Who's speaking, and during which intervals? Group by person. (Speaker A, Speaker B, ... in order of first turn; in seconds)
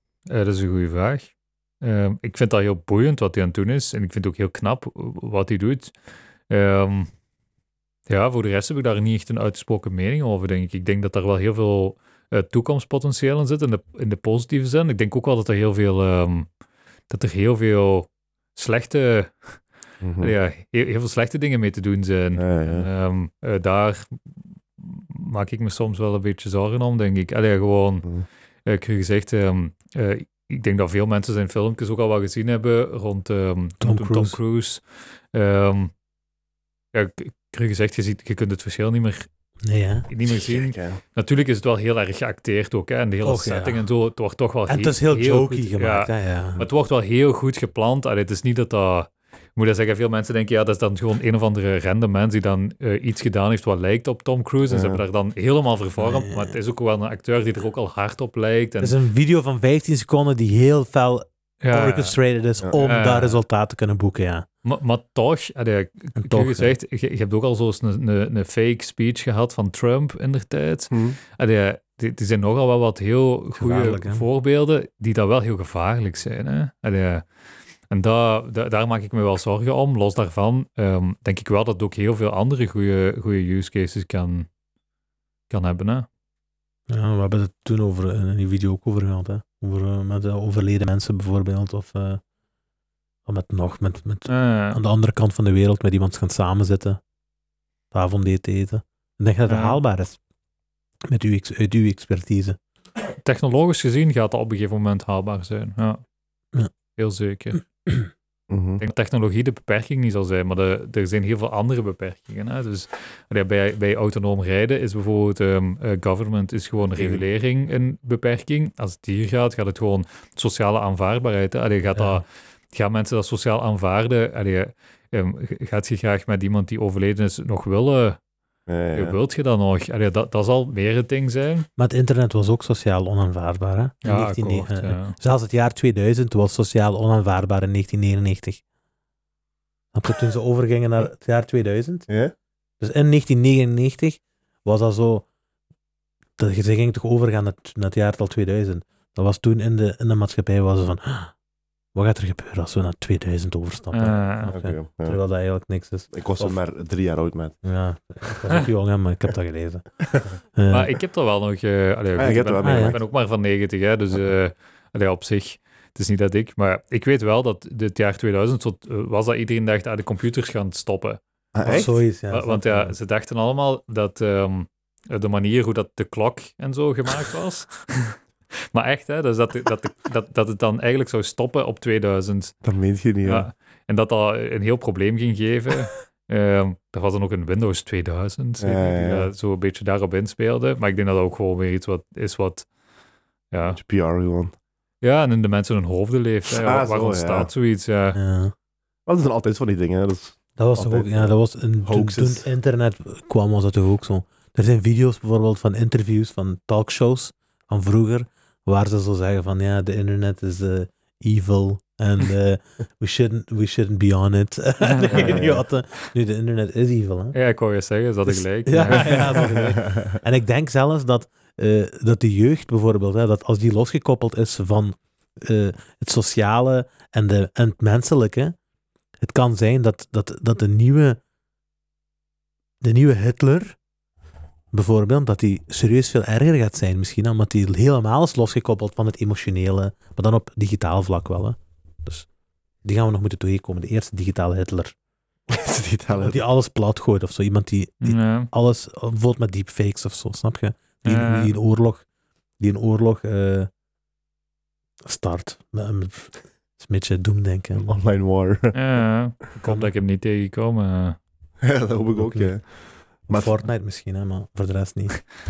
Speaker A: 0.3-5.9, 6.5-7.1, 8.1-16.5, 17.1-19.6, 20.2-24.2, 24.8-28.1, 28.6-35.9, 36.9-39.3, 40.1-58.9, 61.6-62.1, 62.8-63.4, 64.6-77.2, 77.9-84.5, 85.5-86.1, 94.3-94.8, 99.5-99.8, 103.2-106.0, 107.0-107.6, 108.8-128.2, 128.9-131.7, 134.0-135.2, 153.9-154.5, 160.7-178.2, 178.7-182.6, 183.2-192.7, 193.5-193.8, 195.0-198.2, 214.8-215.4, 217.3-219.7, 248.0-248.5, 251.1-251.5, 258.7-261.2
Speaker B: 20.0-20.3, 22.4-22.9, 40.3-41.0, 54.7-55.0, 70.9-71.2, 108.5-108.8, 128.7-129.2, 142.1-142.3, 154.5-155.2, 156.1-157.6, 162.2-163.0, 171.5-171.9, 182.6-183.5, 188.6-189.3, 193.7-194.5, 196.6-197.5, 199.1-202.5, 215.1-215.6, 219.8-220.2, 245.5-246.4, 257.8-258.8, 261.6-262.7, 263.3-263.6
Speaker C: 33.8-34.4, 39.6-40.1, 43.2-43.9, 44.7-46.6, 56.0-56.5, 58.8-64.5, 66.2-66.7, 73.5-74.2, 86.9-92.2, 93.2-97.0, 97.9-100.2, 101.1-102.6, 121.9-122.2, 131.8-138.6, 139.9-142.1, 142.8-145.2, 146.4-151.3, 151.9-156.6, 157.6-159.8, 160.5-160.9, 162.6-163.0, 171.7-172.9, 198.1-198.5, 200.6-217.3, 218.2-228.6, 229.2-231.2, 232.8-233.8, 234.7-242.2, 242.8-244.9, 246.1-252.0, 252.6-253.7, 255.1-257.9, 259.6-259.9, 262.2-262.5, 263.3-265.2